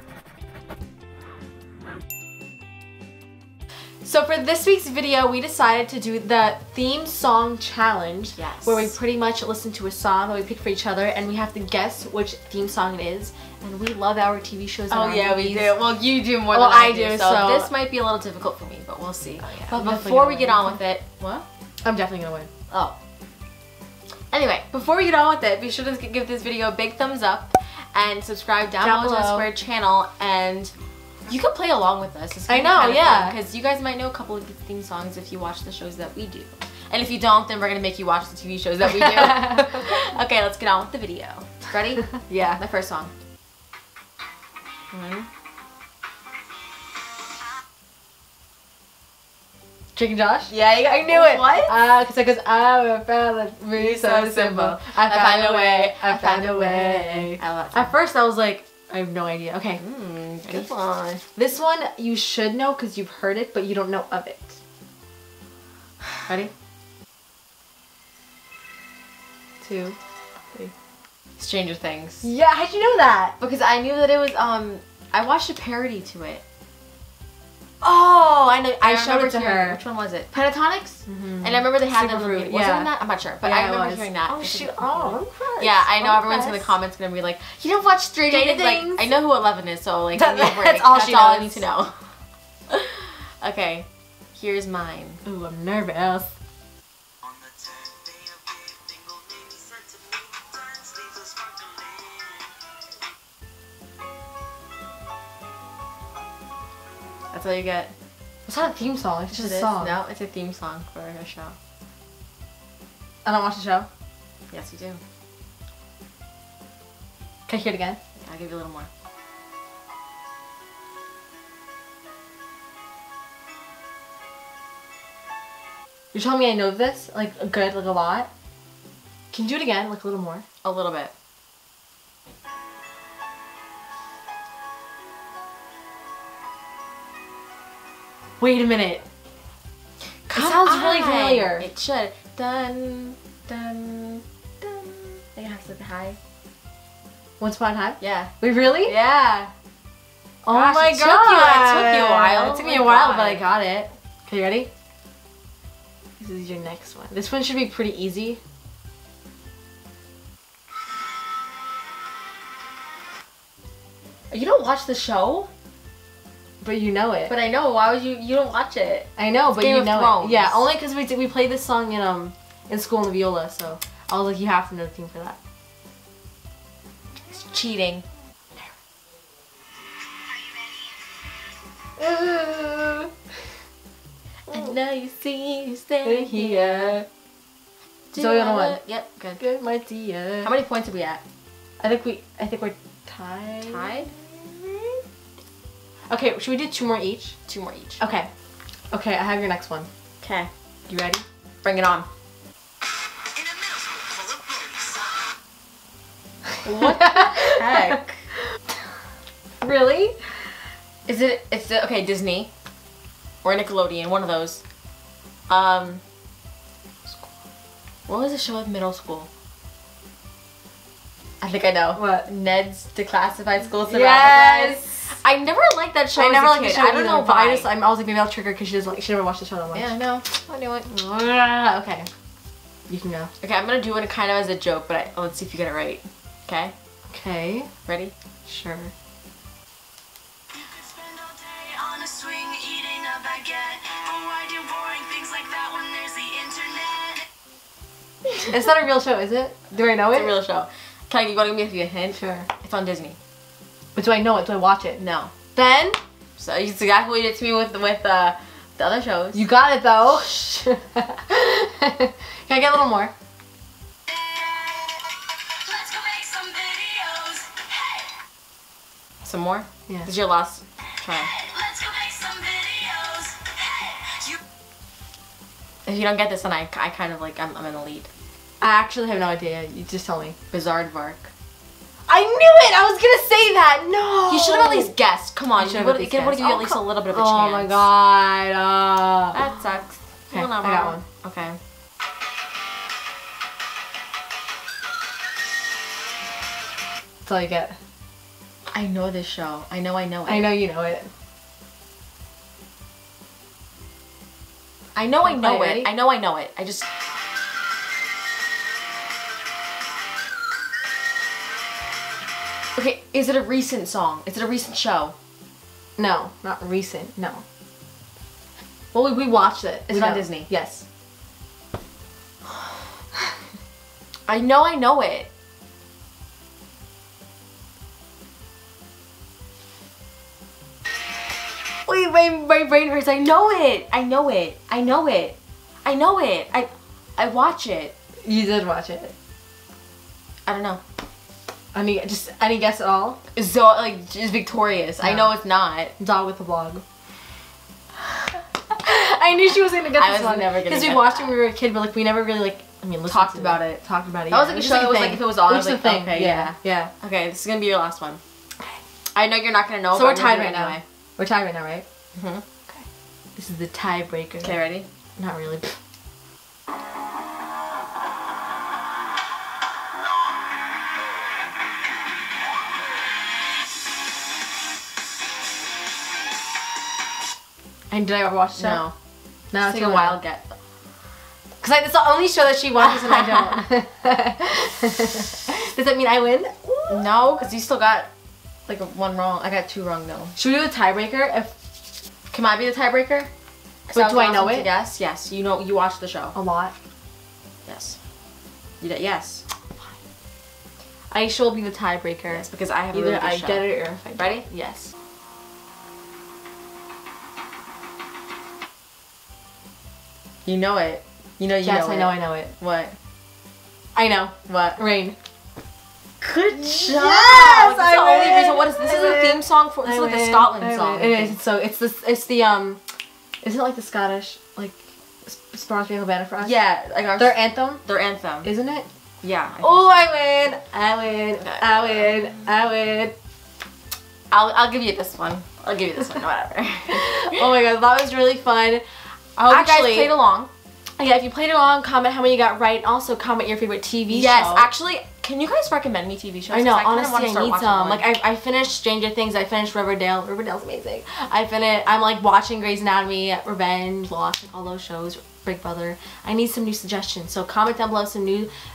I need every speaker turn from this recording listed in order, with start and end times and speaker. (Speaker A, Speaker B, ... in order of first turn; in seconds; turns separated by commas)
Speaker A: 4.0-15.8, Speaker B: 8.4-8.9, Speaker B: 14.9-21.5, Speaker A: 16.5-17.7, Speaker A: 19.4-20.8, Speaker A: 21.8-22.5, Speaker B: 22.7-23.0, Speaker B: 24.3-30.7, Speaker A: 28.8-29.5, Speaker B: 31.3-43.1, Speaker A: 32.5-33.4, Speaker A: 39.2-39.7, Speaker A: 42.2-42.6, Speaker B: 44.9-45.3, Speaker A: 50.0-59.8, Speaker B: 50.5-51.9, Speaker B: 53.7-58.0, Speaker B: 59.8-61.2, Speaker A: 61.4-64.6, Speaker A: 69.6-70.0, Speaker B: 71.4-72.3, Speaker A: 72.2-73.3, Speaker B: 73.4-76.4, Speaker A: 77.8-79.8, Speaker B: 78.8-92.1, Speaker A: 81.1-82.9, Speaker A: 83.4-86.8, Speaker A: 88.3-89.1, Speaker A: 90.1-91.7, Speaker B: 92.7-95.2, Speaker A: 95.2-96.3, Speaker B: 107.3-107.9, Speaker A: 108.5-110.0, Speaker B: 109.3-111.6, Speaker A: 113.2-113.9, Speaker B: 114.5-115.0, Speaker A: 117.5-118.0, Speaker B: 118.2-118.9, Speaker A: 126.1-128.3, Speaker A: 129.3-130.4, Speaker B: 130.6-131.1, Speaker A: 138.4-139.0, Speaker B: 140.3-146.2, Speaker A: 140.3-141.7, Speaker A: 147.4-148.9, Speaker B: 148.0-148.3, Speaker B: 148.8-149.5, Speaker A: 150.4-154.7, Speaker B: 150.5-153.4, Speaker A: 156.2-158.4, Speaker B: 164.3-165.5, Speaker A: 166.6-167.3, Speaker B: 167.3-170.6, Speaker A: 169.2-175.4, Speaker B: 177.3-178.1, Speaker A: 182.0-183.1, Speaker B: 184.5-187.0, Speaker A: 186.1-187.1, Speaker B: 188.1-189.4, Speaker A: 188.1-188.8, Speaker A: 189.4-190.5, Speaker B: 190.4-191.2, Speaker A: 191.8-195.0, Speaker B: 193.6-194.1, Speaker A: 196.1-197.4, Speaker B: 197.5-198.0, Speaker A: 198.0-198.3, Speaker A: 198.9-199.9, Speaker B: 200.2-200.5, Speaker A: 200.9-201.2, Speaker B: 201.6-202.1, Speaker B: 206.6-208.2, Speaker A: 206.8-207.9, Speaker A: 209.6-210.2, Speaker B: 211.1-212.5, Speaker B: 213.4-214.6, Speaker B: 215.5-216.0, Speaker B: 218.1-219.3, Speaker B: 221.4-227.7, Speaker A: 222.0-222.3, Speaker A: 223.8-225.1, Speaker A: 226.2-229.9, Speaker B: 229.7-230.9, Speaker A: 230.9-232.1, Speaker A: 232.9-233.3, Speaker B: 233.4-236.7, Speaker A: 237.1-237.7, Speaker B: 237.9-238.1, Speaker A: 238.5-238.9, Speaker C: 240.9-247.0, Speaker B: 245.2-245.6, Speaker A: 248.5-250.3, Speaker B: 250.1-253.2, Speaker A: 252.2-252.5, Speaker A: 253.9-255.0, Speaker B: 255.0-255.3, Speaker A: 255.5-256.0, Speaker B: 256.4-259.4, Speaker A: 259.3-263.1, Speaker C: 265.7-267.6, Speaker B: 269.2-271.4, Speaker C: 271.4-274.4, Speaker B: 275.9-278.1, Speaker A: 278.6-280.4, Speaker B: 280.5-281.3, Speaker A: 282.1-284.9, Speaker B: 284.3-287.9, Speaker A: 285.6-289.4, Speaker B: 289.3-291.6, Speaker A: 290.3-291.1, Speaker A: 297.3-297.8, Speaker B: 298.7-300.5, Speaker A: 300.3-301.1, Speaker B: 304.9-306.9, Speaker A: 305.2-305.9, Speaker B: 312.8-315.1, Speaker A: 316.0-317.4, Speaker A: 318.9-320.8, Speaker B: 319.9-320.5, Speaker B: 324.3-325.3, Speaker B: 331.9-337.9, Speaker A: 338.2-339.1, Speaker B: 340.5-340.8, Speaker A: 341.7-343.2, Speaker B: 343.4-345.9, Speaker A: 345.0-345.3, Speaker A: 346.0-346.8, Speaker A: 348.7-356.9, Speaker B: 349.9-351.4, Speaker B: 353.1-358.2, Speaker B: 359.1-360.8, Speaker A: 359.9-361.9, Speaker B: 362.1-362.4, Speaker A: 362.7-364.6, Speaker B: 364.4-364.9, Speaker A: 365.2-365.8, Speaker A: 377.9-378.9, Speaker B: 378.6-378.9, Speaker A: 379.5-380.2, Speaker B: 379.6-380.6, Speaker A: 381.6-387.1, Speaker B: 386.9-388.1, Speaker B: 388.7-390.3, Speaker A: 390.4-391.5, Speaker B: 392.3-393.3, Speaker B: 393.9-396.4, Speaker A: 393.9-394.7, Speaker A: 396.3-396.7, Speaker B: 397.7-398.0, Speaker B: 398.8-399.4, Speaker A: 401.1-404.9, Speaker B: 402.3-404.4, Speaker B: 410.4-412.9, Speaker A: 411.6-412.5, Speaker A: 413.9-415.2, Speaker B: 414.5-414.8, Speaker B: 416.2-421.4, Speaker A: 416.6-422.8, Speaker A: 423.4-426.6, Speaker B: 426.4-428.5, Speaker A: 427.2-427.8, Speaker A: 428.4-428.9, Speaker B: 429.2-430.0, Speaker A: 429.6-433.1, Speaker B: 431.4-432.1, Speaker B: 434.3-437.5, Speaker A: 436.9-438.8, Speaker A: 439.4-440.1, Speaker B: 439.4-440.5, Speaker A: 441.0-444.7, Speaker B: 444.1-448.1, Speaker A: 446.5-458.5